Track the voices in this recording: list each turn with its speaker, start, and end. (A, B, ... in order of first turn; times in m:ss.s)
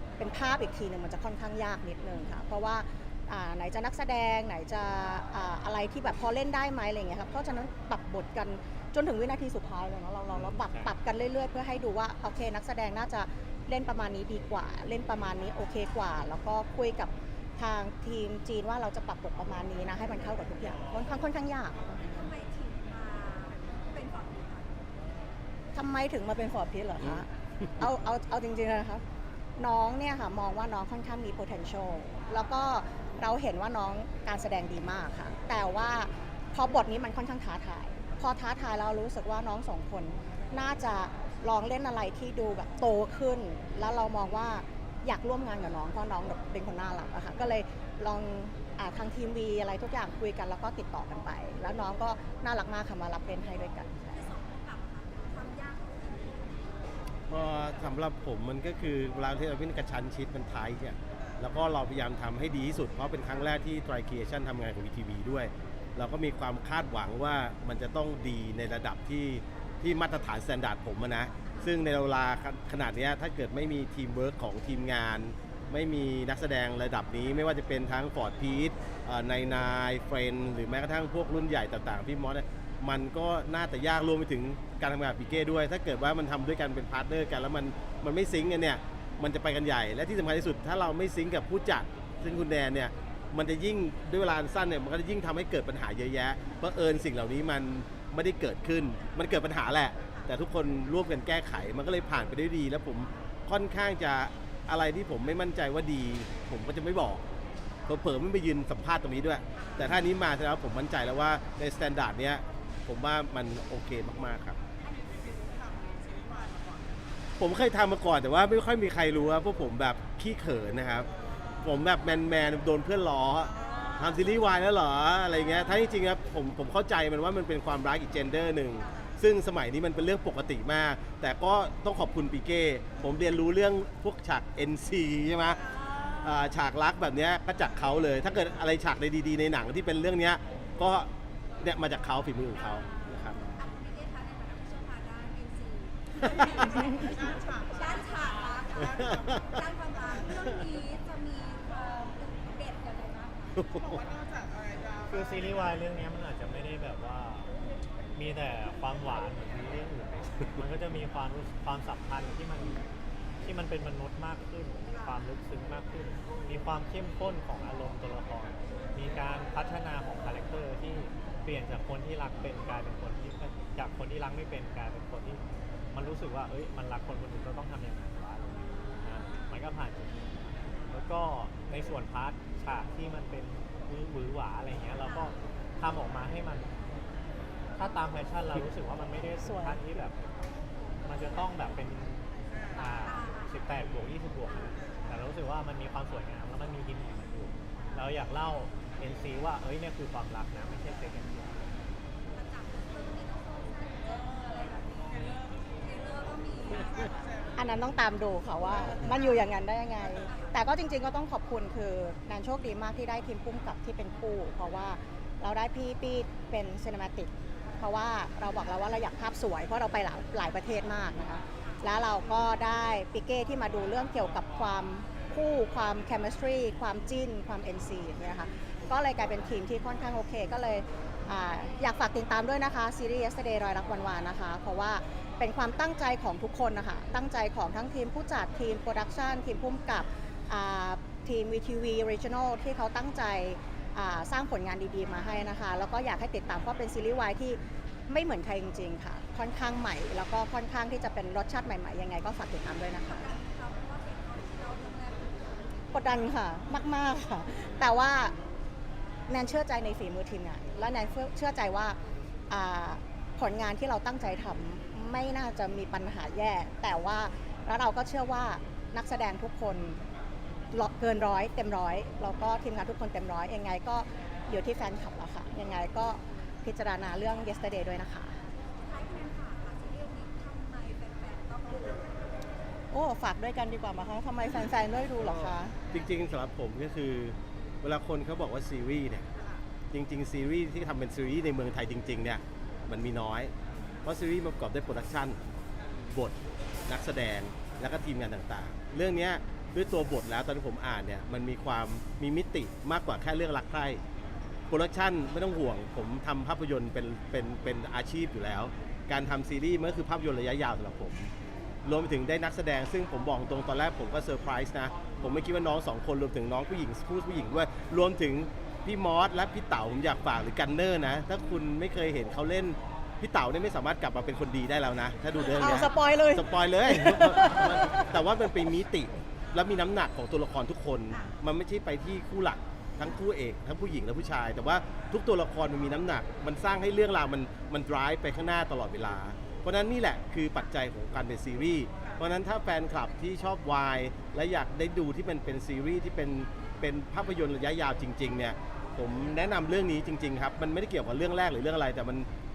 0:00.2-0:22.3 A
0:10.3-0:10.9 B
0:22.0-0:24.8 C
0:25.8-0:29.0 A
0:29.6-0:54.2 A
0:54.1-0:56.8 C
0:57.3-1:47.2 D
1:47.9-1:54.6 D
1:49.6-1:49.9 C
1:57.4-2:01.1 D
2:01.6-2:15.6 D
2:03.6-2:04.0 C
2:08.8-2:09.1 C
2:15.6-2:16.4 C
2:16.2-2:21.1 D
2:21.6-2:23.5 D
2:22.7-2:33.6 C
2:28.8-2:29.4 D
2:33.6-2:34.1 D
2:35.0-2:37.5 B
2:38.2-2:42.9 B
2:43.4-2:55.4 B
2:55.9-3:06.8 B
3:05.0-3:05.3 C
3:07.8-3:10.2 B
3:09.4-3:09.8 A
3:11.0-3:21.8 B
3:13.0-3:13.6 C
3:22.3-3:27.3 C
3:27.6-4:13.2 A
3:30.1-3:30.6 C
4:13.0-4:15.9 C
4:15.9-4:18.4 A
4:19.3-4:22.0 A
4:22.5-4:30.0 A
4:30.7-4:38.4 A
4:38.8-4:42.3 C
4:42.9-4:45.8 A
4:45.2-4:49.3 D
4:49.4-4:49.6 C
4:49.9-4:53.5 D
4:54.0-4:55.4 D
4:56.1-4:56.4 D
4:56.9-5:04.0 D
5:04.7-5:11.3 D
5:11.8-5:52.3 D
5:25.6-5:28.0 A